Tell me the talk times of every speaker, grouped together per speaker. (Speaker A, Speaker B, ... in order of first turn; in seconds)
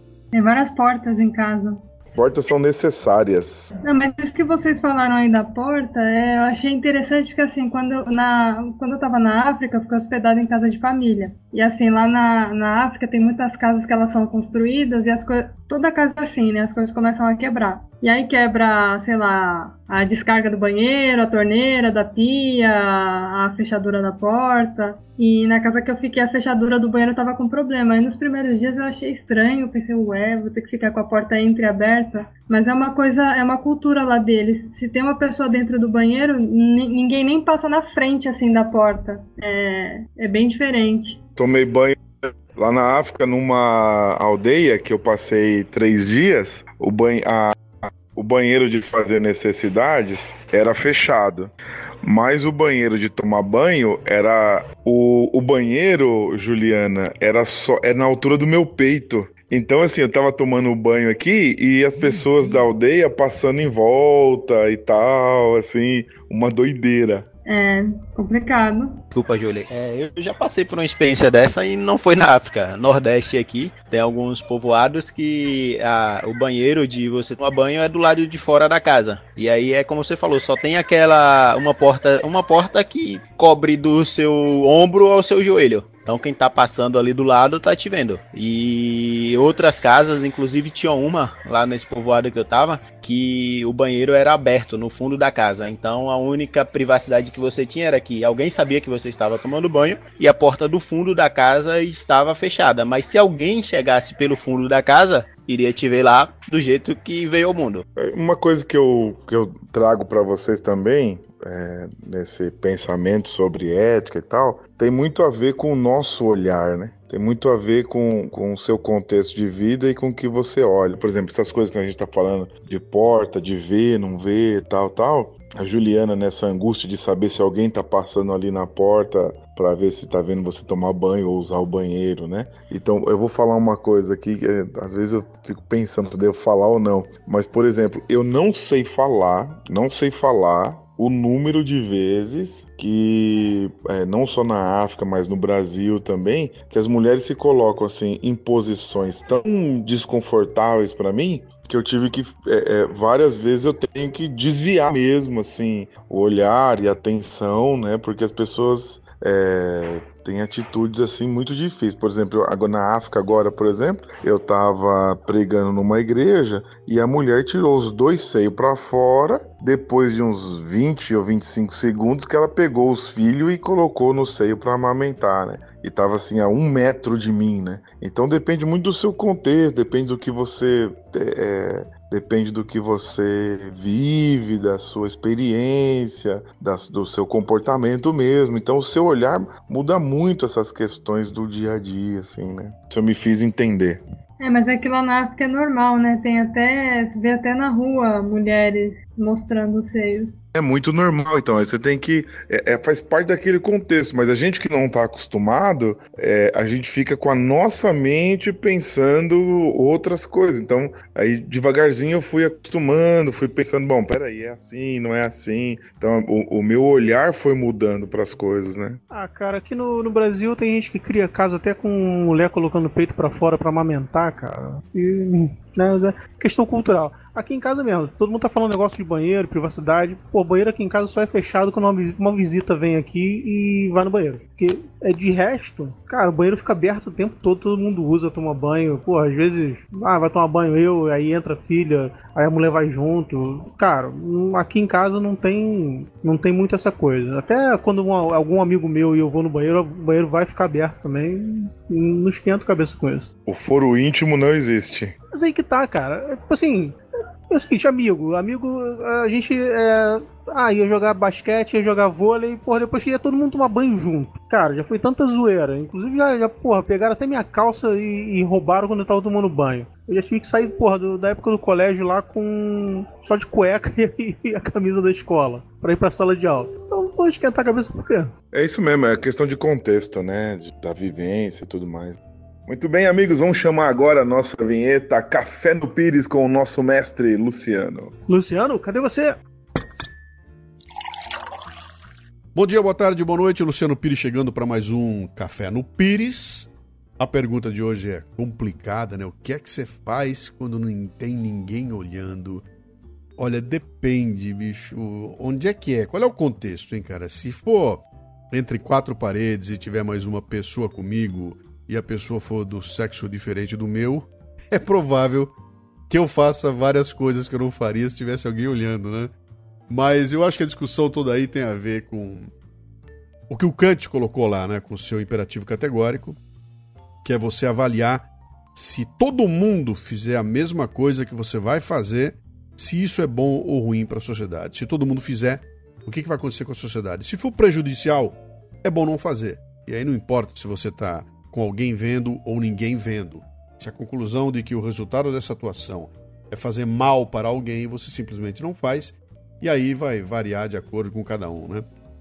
Speaker A: 0.3-1.8, 3.9-41.2, 67.5-69.0, 194.4-200.4
Speaker B: 2.1-3.7, 41.4-47.5, 48.1-51.5, 52.0-67.3, 108.0-194.0, 200.5-219.0, 253.5-255.2, 278.5-288.1
Speaker C: 69.1-107.8
Speaker D: 219.1-253.3, 255.3-257.0, 257.5-278.3, 288.3-289.4
Speaker E: 292.5-302.6, 303.4-315.5, 316.1-319.3, 319.9-322.5, 323.5-326.4, 327.2-351.9